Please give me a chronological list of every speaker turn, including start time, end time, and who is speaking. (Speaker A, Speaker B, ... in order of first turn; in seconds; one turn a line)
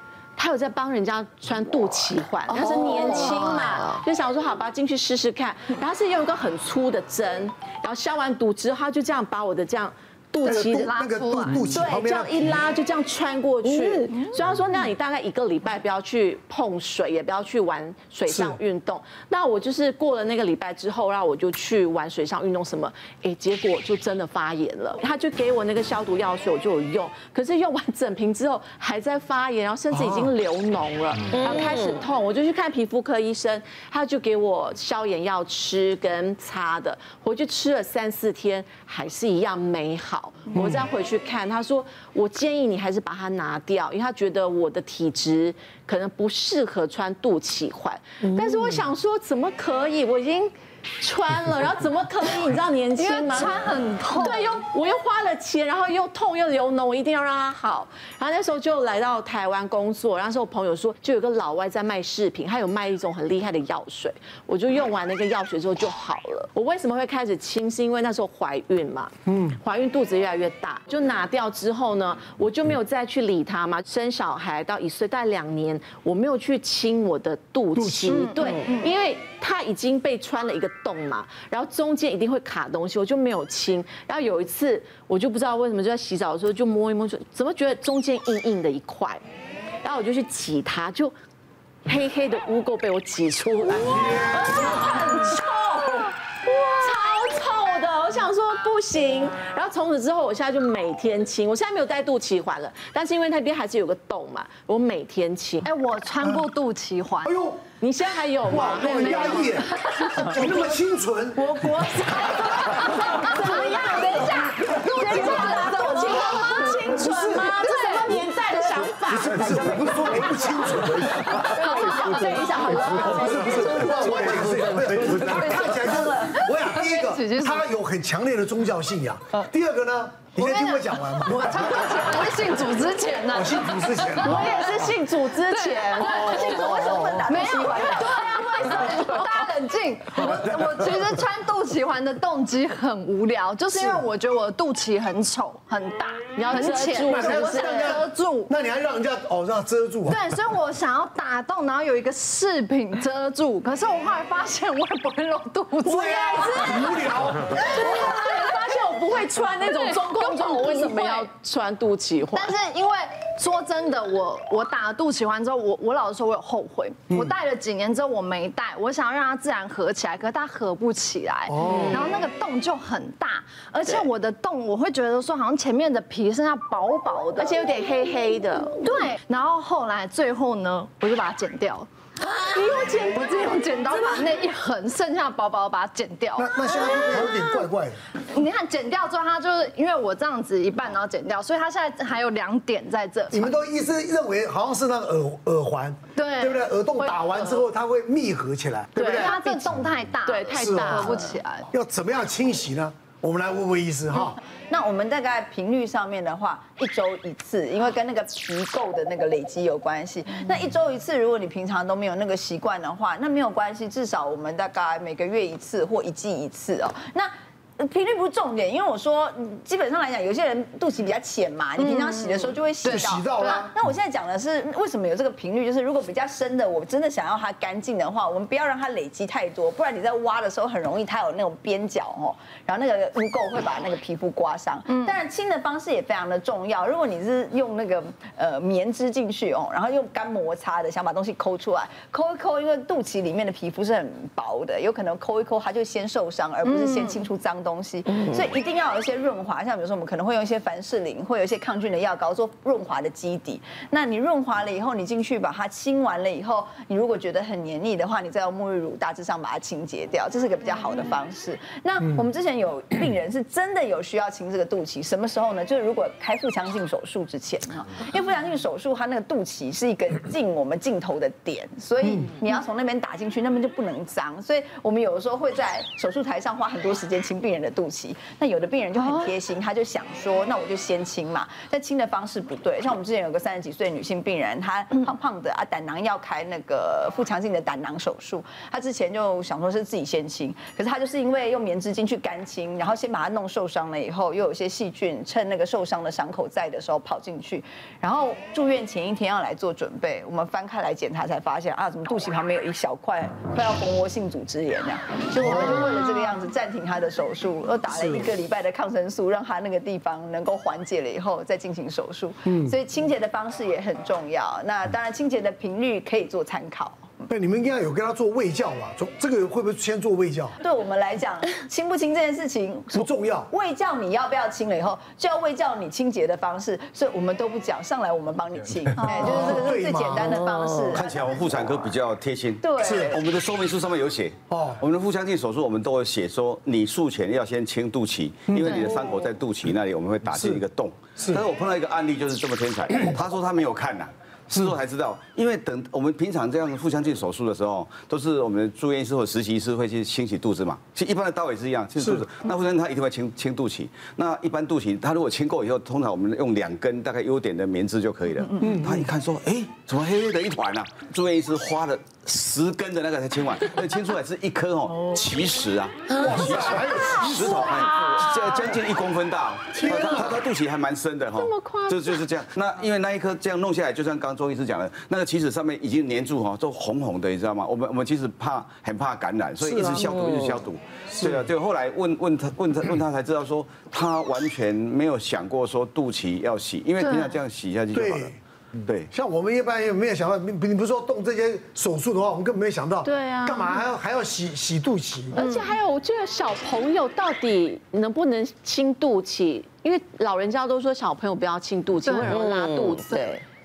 Speaker A: 0.4-53.6
Speaker B: 2.6-3.9
Speaker C: 2.7-3.5
Speaker D: 10.4-12.6
Speaker C: 10.6-11.7
Speaker B: 13.6-14.2
Speaker D: 18.3-18.6
Speaker D: 29.9-30.3
Speaker B: 31.3-32.0
Speaker C: 53.0-54.5
Speaker A: 54.1-89.2
Speaker D: 69.3-69.6
Speaker D: 77.8-78.4
Speaker C: 78.1-78.9
Speaker A: 89.8-91.1
Speaker A: 91.8-105.7
Speaker D: 93.7-95.0
Speaker C: 105.6-107.3
Speaker D: 107.2-107.6
Speaker A: 107.8-110.7
Speaker D: 108.4-111.5
Speaker C: 108.9-110.3
Speaker A: 111.3-124.5
Speaker C: 112.6-118.1
Speaker D: 116.9-117.6
Speaker D: 119.0-121.4
Speaker D: 122.9-132.3
Speaker B: 124.0-126.1
Speaker C: 125.2-127.7
Speaker C: 130.3-134.5
Speaker D: 133.3-134.9
Speaker A: 134.2-139.2
Speaker C: 135.5-148.5
Speaker E: 136.2-138.8
Speaker D: 136.8-137.3
Speaker D: 143.7-144.0
Speaker A: 146.3-148.0
Speaker D: 147.0-150.3
Speaker C: 150.1-156.8
Speaker D: 155.8-157.7
Speaker A: 155.9-162.5
Speaker C: 157.5-161.3
Speaker C: 162.3-177.6
Speaker D: 171.5-172.1
Speaker A: 171.7-172.0
Speaker A: 177.4-178.8
Speaker C: 178.8-181.9
Speaker A: 182.2-184.0
Speaker C: 183.1-187.6
Speaker D: 186.3-188.0
Speaker C: 188.3-193.5
Speaker D: 193.3-199.4
Speaker C: 196.2-197.6
Speaker A: 198.9-201.4
Speaker C: 199.0-201.7
Speaker D: 200.6-201.1
Speaker D: 201.7-204.4
Speaker E: 204.6-317.3
Speaker C: 221.8-223.7
Speaker D: 222.8-223.7
Speaker C: 234.9-235.1
Speaker C: 246.7-247.2
Speaker D: 307.9-308.2
Speaker D: 312.5-312.7
Speaker D: 317.3-320.6
Speaker E: 320.6-332.0
Speaker D: 322.9-323.5
Speaker C: 329.0-329.3
Speaker D: 329.1-330.4
Speaker F: 330.9-389.1
Speaker E: 332.6-333.2
Speaker D: 332.8-333.2
Speaker D: 334.5-334.8
Speaker D: 338.5-338.9
Speaker D: 340.3-340.6
Speaker D: 341.2-341.5
Speaker D: 352.0-352.2
Speaker D: 366.1-367.9
Speaker A: 371.4-372.2
Speaker B: 379.6-380.6
Speaker D: 381.1-381.4
Speaker C: 387.0-387.3
Speaker D: 387.9-388.4
Speaker D: 389.1-395.4
Speaker A: 393.0-393.8
Speaker A: 395.3-403.1
Speaker C: 395.4-395.7
Speaker C: 402.0-402.5
Speaker B: 402.3-403.4